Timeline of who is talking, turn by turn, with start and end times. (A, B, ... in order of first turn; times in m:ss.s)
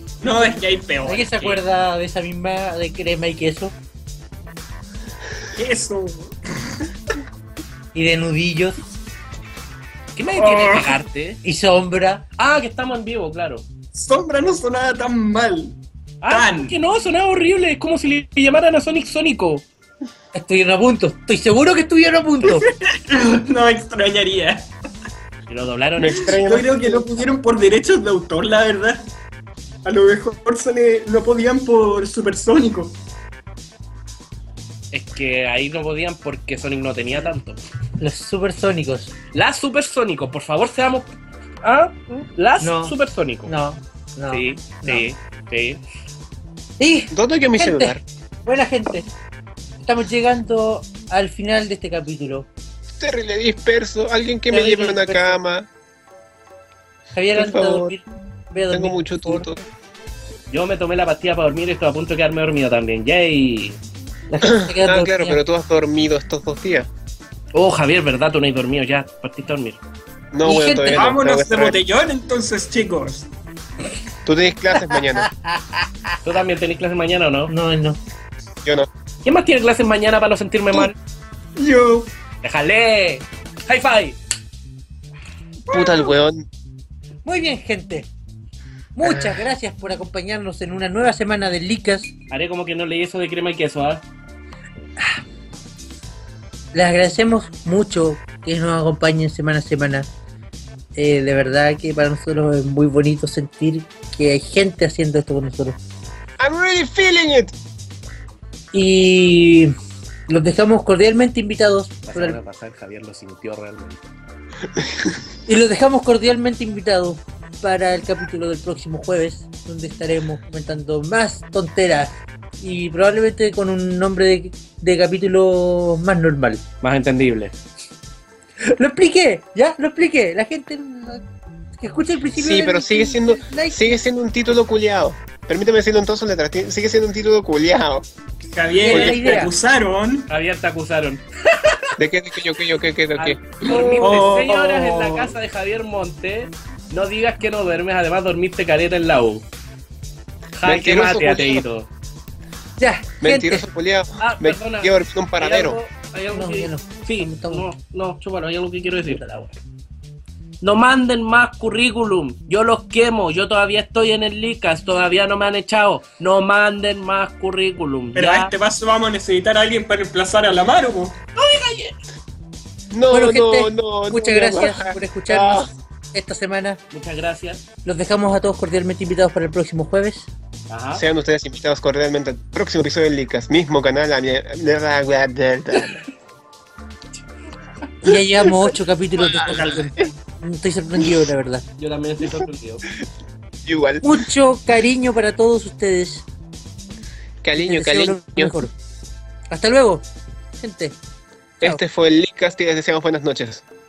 0:00.2-0:01.6 A
0:01.0-0:03.7 B
0:05.5-0:06.8 A
0:07.9-0:08.8 B
0:10.1-0:11.4 C
0:10.4-0:11.0 A
0:11.4-0:12.2 B
0:12.4-0:13.6 C
0:13.9-0:16.8 A
0:16.2-0:19.6 C
0:20.3-0:22.7 B
0:22.4-0:24.7 A
0:25.5-0:26.4 C
0:26.0-0:27.1 D
0:26.3-0:29.1 A
0:29.8-0:33.0 A
0:34.9-0:37.6 C
0:38.0-0:39.1 B
0:39.3-0:41.1 C
0:41.6-0:43.5 C
0:42.6-0:42.9 B
0:43.4-0:45.0 B
0:44.3-0:45.8 C
0:46.8-0:49.1 B
0:47.1-0:48.0 D
0:49.8-0:52.5 B
0:53.0-0:55.7 D
0:54.5-0:55.4 B
0:57.1-0:59.5 B
0:57.3-0:57.9 D
0:58.7-0:59.6 D
1:00.5-1:03.8 C
1:04.3-1:05.4 B
1:04.4-1:06.9 D
1:07.5-1:09.8 C
1:10.3-1:11.8 D
1:10.4-1:11.1 B
1:10.9-1:13.3 A
1:14.2-1:15.3 D
1:15.2-1:15.6 B
1:16.2-1:17.5 C
1:17.5-1:18.0 B
1:19.2-1:20.9 C
1:21.6-1:22.1 A
1:22.4-1:24.2 C
1:25.7-1:26.1 A
1:25.7-1:26.4 D
1:27.2-1:28.1 B
1:29.0-1:32.1 B
1:29.0-1:29.4 D
1:32.3-1:34.0 C
1:36.7-1:40.1 B
1:40.9-1:45.8 B
1:46.4-1:47.5 D
1:48.7-1:49.7 B
1:50.3-1:52.4 B
1:52.1-1:54.0 C
1:55.5-2:06.6 B
2:06.8-2:07.6 C
2:08.6-2:11.2 B
2:11.8-2:14.0 B
2:12.4-2:18.1 D
2:18.5-2:20.3 A
2:18.8-2:19.5 B
2:18.9-2:19.2 D
2:20.3-2:21.9 C
2:22.0-2:23.4 D
2:23.2-2:29.4 C
2:23.6-2:25.2 A
2:23.7-2:24.4 B
2:30.6-2:31.9 C
2:30.6-2:31.6 D
2:32.8-2:33.6 B
2:33.2-2:35.8 D
2:34.2-2:39.2 C
2:36.3-2:37.7 B
2:39.1-2:39.5 B
2:40.6-2:48.5 C
2:48.1-2:51.2 A
2:48.2-2:48.5 B
2:51.4-2:52.0 C
2:52.9-2:55.7 D
2:53.1-2:56.8 B
2:56.9-2:57.6 C
2:57.8-3:00.3 B
3:00.7-3:01.0 C
3:00.9-3:06.0 D
3:08.0-3:11.6 B
3:08.0-3:10.1 D
3:11.8-3:12.8 C
3:13.6-3:14.1 D
3:14.0-3:16.2 B
3:17.4-3:18.6 D
3:17.5-3:18.7 B
3:19.5-3:20.0 B
3:20.6-3:21.0 B
3:21.6-3:23.6 D